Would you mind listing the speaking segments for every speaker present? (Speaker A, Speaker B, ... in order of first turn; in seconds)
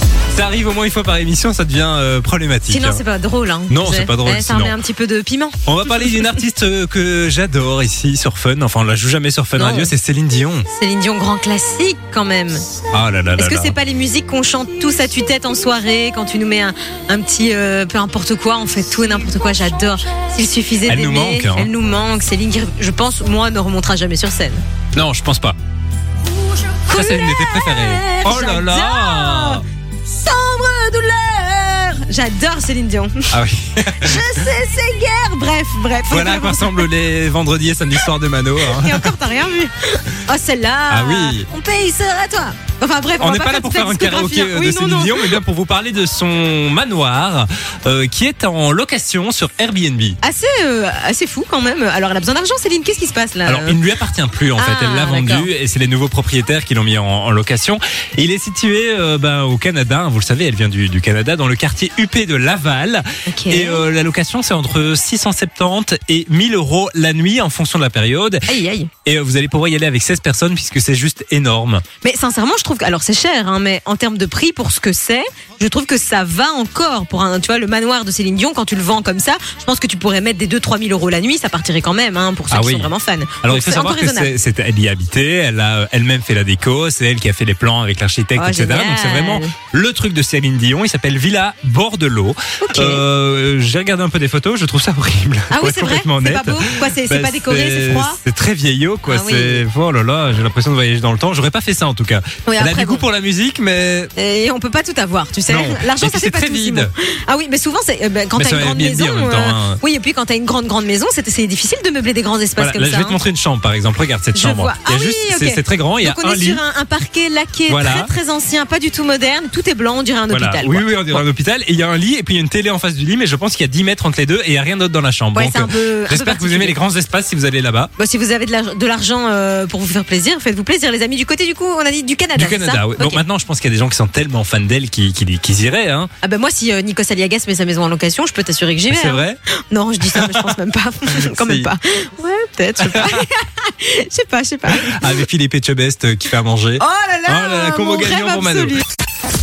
Speaker A: 0.3-3.0, 3.7-4.8, 5.7-10.7, 12.9-13.8, 20.9-21.7, 24.9-25.6, 26.9-29.6, 33.3-34.5, 36.1-39.1, 40.9-41.5, 43.2-50.2, 53.5-68.5, 69.0-71.8, 82.5-82.9, 83.4-104.1, 105.5-106.9, 108.4-109.8, 112.6-116.6, 117.7-118.1, 120.3-127.9, 132.3-136.1, 138.9-139.4, 140.1-140.6, 141.2-141.7, 142.8-143.2, 144.7-148.8
Speaker B: 2.7-6.4, 9.6-9.9, 10.7-12.8, 13.4-24.6, 26.4-33.3, 34.0-36.9, 38.6-45.4, 50.2-53.8, 54.6-55.5, 63.3-63.9, 68.5-68.9, 72.0-84.3, 88.4-89.5, 92.6-93.0, 95.5-98.2, 99.1-99.6, 102.5-103.0, 104.2-113.2, 114.3-121.2, 125.3-126.8, 128.0-133.2, 136.2-145.2, 146.8-148.8